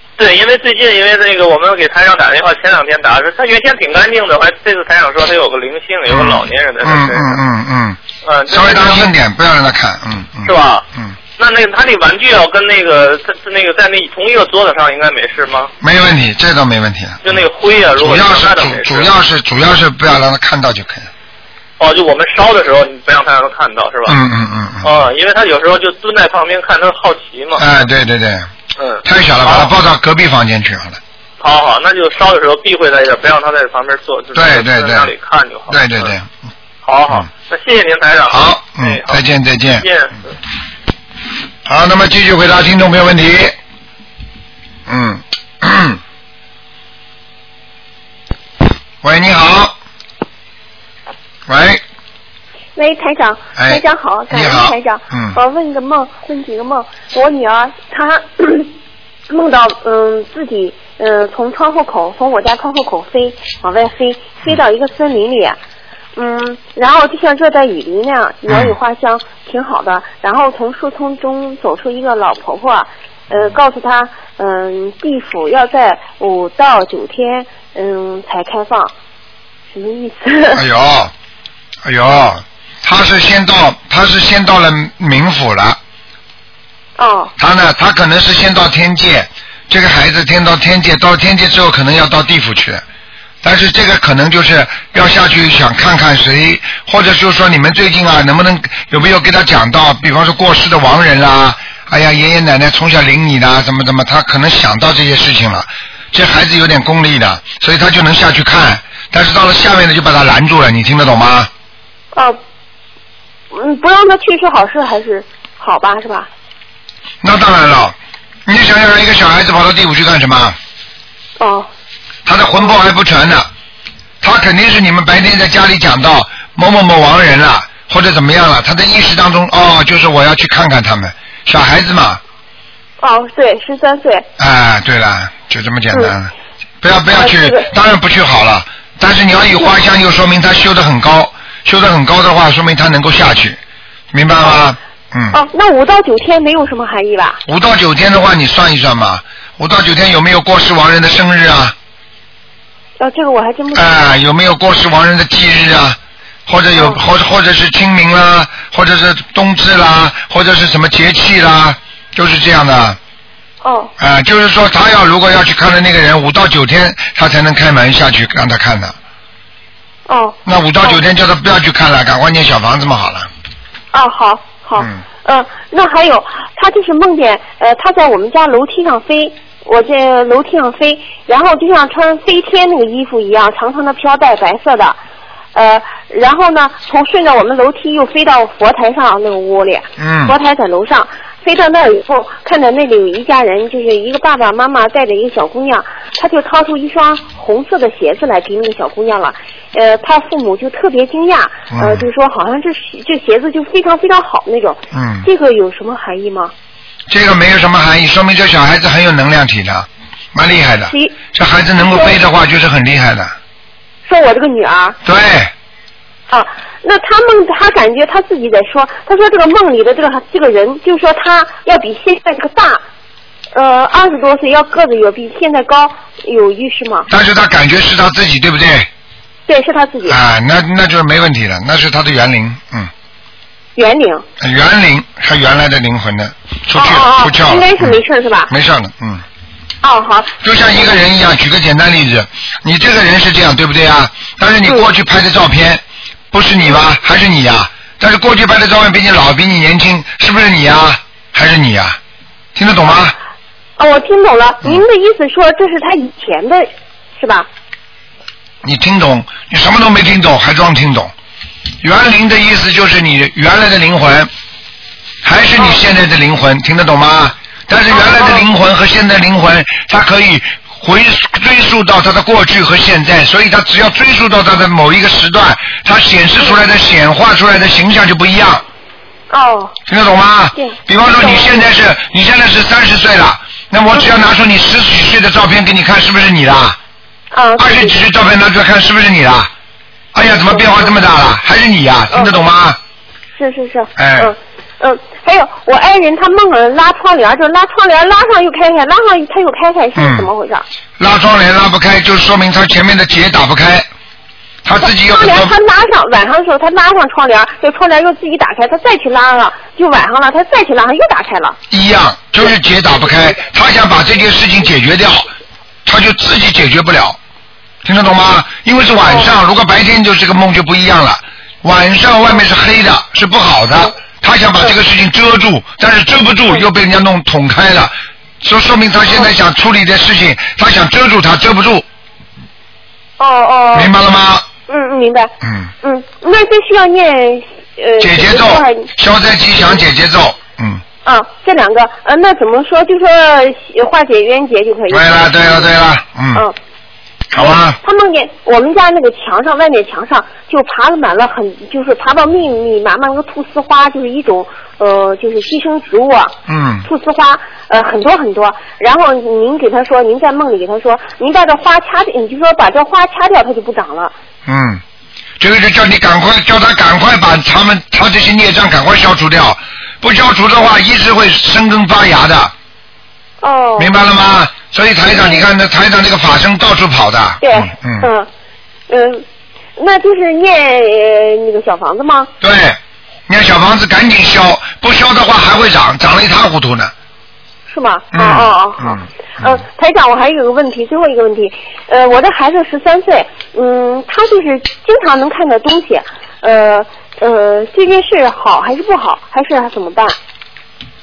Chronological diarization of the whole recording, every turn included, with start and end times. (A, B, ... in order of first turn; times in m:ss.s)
0:00.2-0:07.4 A
0:06.1-0:11.1 B
0:08.2-0:09.1 A
0:10.4-0:10.8 A
0:11.4-0:15.7 A
0:15.8-0:17.4 B
0:17.2-0:19.1 A
0:17.9-0:21.1 B
0:21.8-0:24.2 A
0:24.0-0:25.0 B
0:24.8-0:27.7 A
0:27.6-0:28.5 B
0:28.8-0:29.7 A
0:29.0-0:31.0 B
0:31.4-0:36.1 A
0:34.3-0:35.1 B
0:35.7-0:36.3 B
0:36.8-0:39.2 A
0:38.3-0:39.8 B
0:39.8-0:40.3 A
0:41.6-0:43.6 B
0:44.9-0:46.0 B
0:49.0-0:49.7 B
0:51.5-0:51.8 B
0:52.8-0:58.7 C
0:53.6-0:55.4 B
0:59.3-1:05.6 C
1:06.1-1:18.9 C
1:08.5-1:08.7 B
1:19.7-1:20.6 C
1:20.5-1:21.1 B
1:21.8-1:25.8 B
1:27.0-1:27.3 C
1:27.4-1:32.8 B
1:33.4-1:51.5 B
1:53.5-1:56.3 C
1:57.2-1:57.9 B
1:58.4-2:00.6 B
2:01.4-2:01.7 C
2:02.2-2:03.5 B
2:04.2-2:12.2 B
2:13.0-2:14.2 C
2:14.4-2:16.3 B
2:16.8-2:23.6 B
2:17.1-2:17.7 C
2:24.1-2:25.4 B
2:25.3-2:27.4 C
2:27.5-2:31.7 B
2:33.0-2:33.9 C
2:33.7-2:43.0 B
2:36.8-2:37.0 C
2:43.6-2:43.9 C
2:44.0-2:49.0 B
2:50.1-2:51.0 C
2:50.4-2:53.3 B
2:53.9-3:05.0 C
3:05.5-3:26.5 C
3:10.0-3:10.3 B
3:21.7-3:22.1 B
3:24.9-3:25.3 B
3:27.1-3:33.3 B
3:30.9-3:31.2 C
3:34.0-3:35.0 C
3:35.0-3:35.5 B
3:36.3-3:42.8 C
3:43.5-3:47.1 C
3:47.1-3:48.9 B
3:49.5-3:50.2 C
3:50.1-3:52.9 B
3:53.8-3:54.2 C
3:54.4-3:59.2 B
3:56.7-3:58.5 C
3:59.8-4:00.3 C
4:00.4-4:12.0 B
4:12.5-4:13.2 B
4:13.8-4:17.5 C
4:18.6-4:21.1 B
4:21.8-4:24.3 B
4:25.2-4:38.6 B
4:27.9-4:28.4 C
4:39.3-4:39.7 C
4:39.9-4:46.8 B
4:40.6-4:41.6 C
4:47.3-4:48.0 C
4:47.6-4:49.5 B
4:50.1-4:52.8 B
4:52.1-4:52.4 C
4:53.4-5:00.6 C
4:54.0-4:54.3 B
5:00.0-5:00.3 B
5:01.0-5:03.9 B
5:04.6-5:05.5 B
5:04.8-5:11.6 C
5:11.7-5:15.3 B
5:15.8-5:17.2 B
5:17.8-5:31.8 B
5:19.1-5:19.3 C
5:33.2-5:33.9 C
5:33.7-5:34.5 B
5:34.7-5:38.9 C
5:35.4-5:35.7 B
5:38.0-5:40.8 B
5:41.0-5:45.7 C
5:44.9-5:46.4 B
5:47.3-5:47.8 B
5:47.4-6:04.1 C
5:56.5-5:56.8 B
6:04.4-6:04.8 B
6:05.4-6:12.5 B
6:13.4-6:14.0 C
6:13.8-6:18.1 B
6:15.1-6:15.4 C
6:17.4-6:18.3 C
6:18.9-6:19.2 C
6:19.8-6:22.3 C
6:22.4-6:26.9 B
6:27.7-6:40.2 C
6:28.1-6:29.6 B